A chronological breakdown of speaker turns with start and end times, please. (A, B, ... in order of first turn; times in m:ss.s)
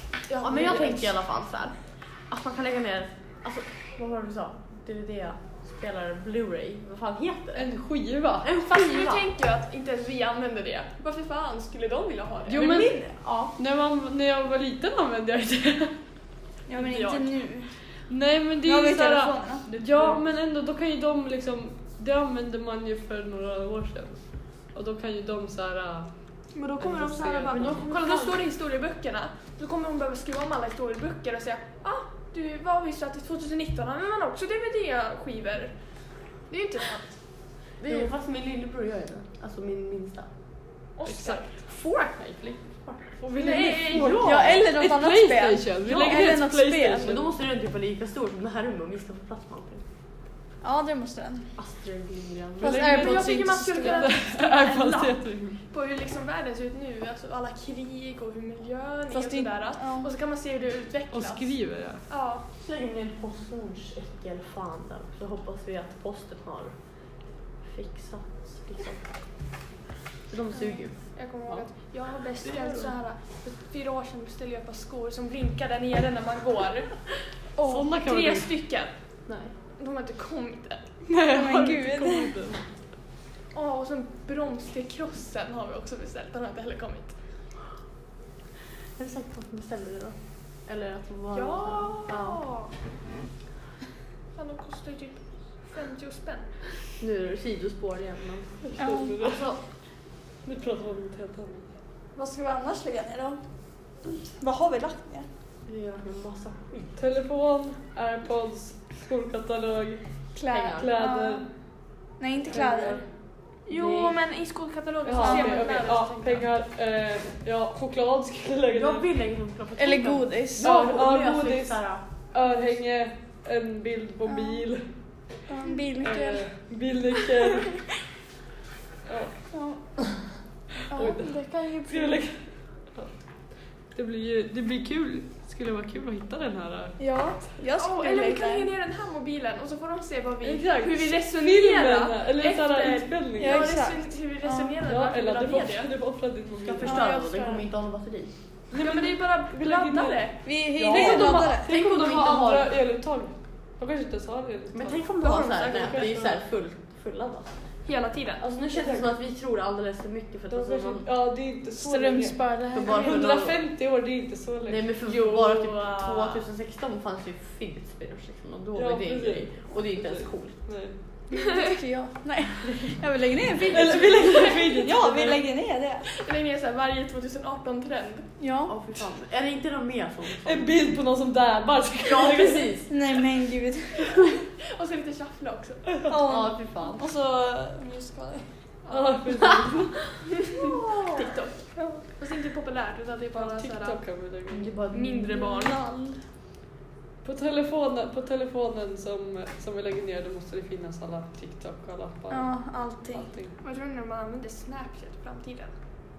0:00.3-0:01.1 A
0:00.4-0:07.7 B
0:00.6-0:00.9 C
0:07.5-0:08.5 C
0:08.4-0:09.3 B
0:08.7-0:12.8 A
0:12.4-0:13.0 C
0:12.5-0:13.1 D
0:13.1-0:13.6 B
0:13.6-0:16.0 C
0:16.7-0:18.0 D
0:16.7-0:17.3 A
0:18.0-0:27.9 C
0:18.6-0:19.7 D
0:19.6-0:20.2 B
0:26.5-0:35.7 A
0:27.5-0:28.4 B
0:36.5-0:37.2 A
0:37.8-0:40.3 B
0:41.0-0:41.5 A
0:41.0-0:41.6 C
0:41.7-0:44.6 B
0:43.2-0:47.3 C
0:43.3-0:44.2 A
0:44.2-0:47.2 D
0:45.9-0:46.2 B
0:47.0-0:49.8 B
0:50.6-0:51.5 D
0:51.6-0:52.8 B
0:52.6-0:55.6 C
0:52.6-0:54.1 D
0:52.6-1:02.4 A
0:59.1-1:00.1 D
1:01.1-1:02.0 C
1:02.6-1:06.8 B
1:07.6-1:09.1 B
1:10.3-1:11.7 B
1:10.5-1:17.0 A
1:12.4-1:12.9 B
1:17.6-1:18.5 C
1:17.9-1:18.9 A
1:19.3-1:19.5 B
1:19.8-1:20.9 A
1:21.1-1:22.6 C
1:21.2-1:22.4 D
1:23.5-1:27.2 A
1:29.0-1:32.4 B
1:31.3-1:32.7 A
1:34.3-1:36.7 A
1:37.0-1:38.6 B
1:38.6-1:39.5 C
1:38.8-1:39.2 D
1:39.2-1:39.6 B
1:40.4-1:41.7 C
1:42.1-1:43.4 D
1:44.0-1:45.3 D
1:45.6-1:47.0 B
1:47.0-1:51.5 C
1:50.3-1:51.4 D
1:50.5-1:50.9 B
1:52.2-1:53.0 D
1:52.4-1:53.0 C
1:53.6-1:56.5 A
1:53.7-1:54.2 B
1:55.0-1:59.1 C
1:55.2-1:55.6 D
1:58.7-2:02.0 B
1:59.8-2:00.7 D
2:00.6-2:04.8 C
2:04.2-2:04.6 D
2:05.5-2:06.5 D
2:06.0-2:07.8 C
2:07.2-2:07.7 D
2:09.0-2:09.3 C
2:09.5-2:10.3 D
2:10.8-2:12.3 D
2:10.9-2:13.1 C
2:13.9-2:17.0 C
2:17.0-2:18.7 D
2:17.8-2:25.9 A
2:20.4-2:23.7 C
2:23.4-2:24.8 D
2:24.8-2:27.0 C
2:26.6-2:28.3 B
2:26.8-2:27.6 A
2:28.7-2:31.3 A
2:28.7-2:35.1 C
2:30.4-2:31.7 D
2:31.2-2:32.8 B
2:34.7-2:37.6 B
2:35.2-2:36.1 A
2:35.7-2:36.4 C
2:37.8-2:38.4 A
2:38.4-2:39.1 C
2:38.5-2:41.1 B
2:40.5-2:46.5 C
2:41.8-2:43.2 D
2:42.7-2:43.8 B
2:44.6-2:50.7 B
2:48.7-2:51.0 C
2:51.3-2:56.1 D
2:53.5-2:54.2 B
2:53.7-2:55.4 C
2:54.0-2:54.7 A
2:56.0-2:58.3 A
2:58.4-2:58.7 D
2:58.6-3:00.8 B
3:00.3-3:02.7 C
3:02.0-3:02.9 B
3:02.9-3:04.2 D
3:04.7-3:06.0 A
3:06.0-3:08.5 D
3:06.2-3:07.1 B
3:08.8-3:09.2 A
3:08.9-3:10.0 C
3:10.3-3:14.0 A
3:10.6-3:11.2 B
3:13.3-3:14.8 C
3:14.5-3:15.5 B
3:14.9-3:15.8 A
3:15.5-3:16.2 D
3:17.2-3:23.5 C
3:22.3-3:23.3 D
3:23.6-3:25.8 A